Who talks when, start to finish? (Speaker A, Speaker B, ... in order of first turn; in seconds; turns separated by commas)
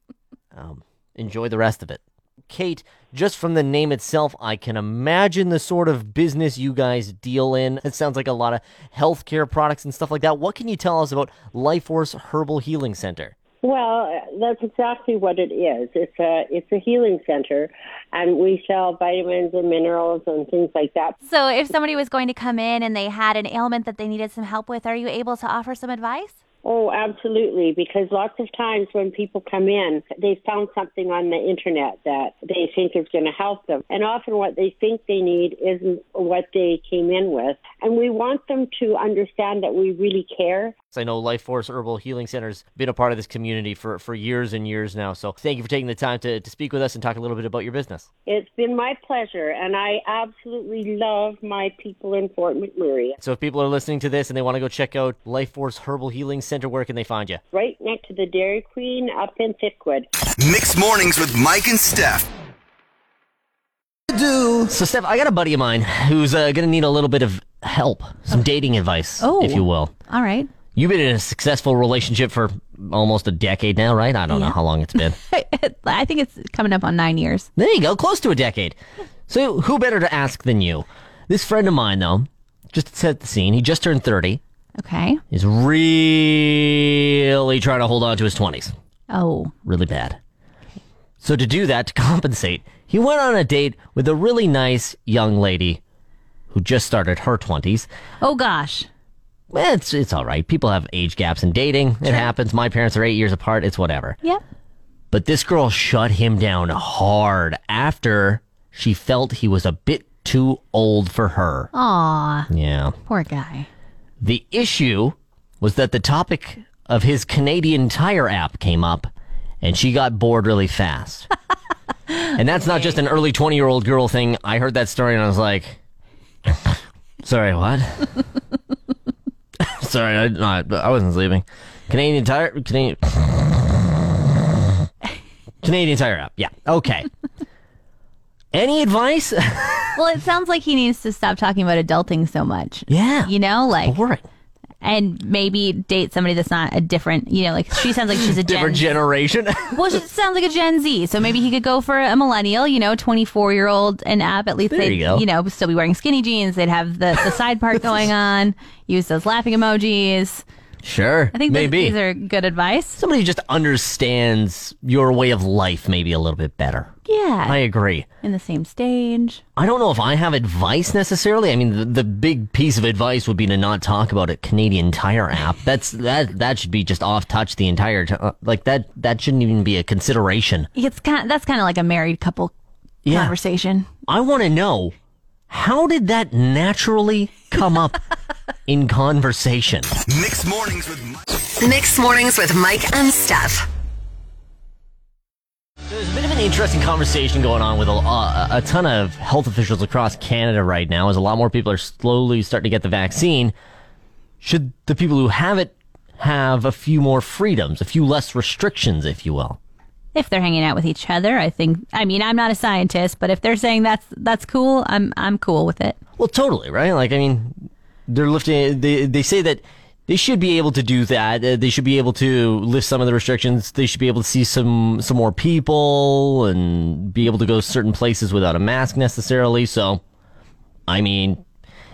Speaker A: 0.5-13.3, Speaker B: 13.6-21.2, Speaker C: 21.2-26.4, Speaker B: 26.6-40.8, Speaker A: 40.9-48.1, Speaker B: 48.3-53.2, Speaker A: 53.2-57.4, Speaker B: 57.5-60.1, Speaker D: 60.4-62.3, Speaker A: 64.1-69.9, Speaker C: 69.2-70.5, Speaker A: 70.8-75.2, Speaker C: 74.3-77.5, Speaker A: 77.6-78.8, Speaker A: 79.3-84.4, Speaker C: 84.8-85.2, Speaker A: 85.3-88.7, Speaker C: 89.1-89.5, Speaker A: 89.7-90.2, Speaker A: 91.2-95.8, Speaker A: 96.5-97.9, Speaker C: 98.2-98.9, Speaker A: 99.5-104.2, Speaker A: 105.1-111.7, Speaker C: 111.7-112.5, Speaker A: 112.5-113.0, Speaker C: 113.1-113.7, Speaker A: 114.2-119.1, Speaker A: 119.6-121.3, Speaker A: 122.3-125.8, Speaker C: 122.6-123.0, Speaker A: 126.5-128.1, Speaker A: 129.6-134.8, Speaker A: 135.6-137.1, Speaker A: 138.5-139.9, Speaker C: 139.9-144.0, Speaker A: 142.9-144.2, Speaker C: 144.8-148.9, Speaker A: 148.2-150.0, Speaker C: 149.7-160.4, Speaker A: 154.7-155.3, Speaker A: 160.8-162.0, Speaker C: 161.3-163.0, Speaker A: 163.0-166.9, Speaker C: 167.1-167.6, Speaker A: 167.5-168.1, Speaker C: 168.2-169.4, Speaker A: 169.6-180.7, Speaker C: 180.8-182.5, Speaker A: 183.1-183.3, Speaker C: 183.1-183.9, Speaker A: 184.1-184.9, Speaker A: 185.5-188.0, Speaker A: 188.7-189.9, Speaker D: 190.0-191.2, Speaker E: 191.6-193.7, Speaker A: 195.9-203.6, Speaker A: 204.4-209.6, Speaker C: 210.1-216.0, Speaker A: 216.2-230.0, Speaker A: 230.9-231.4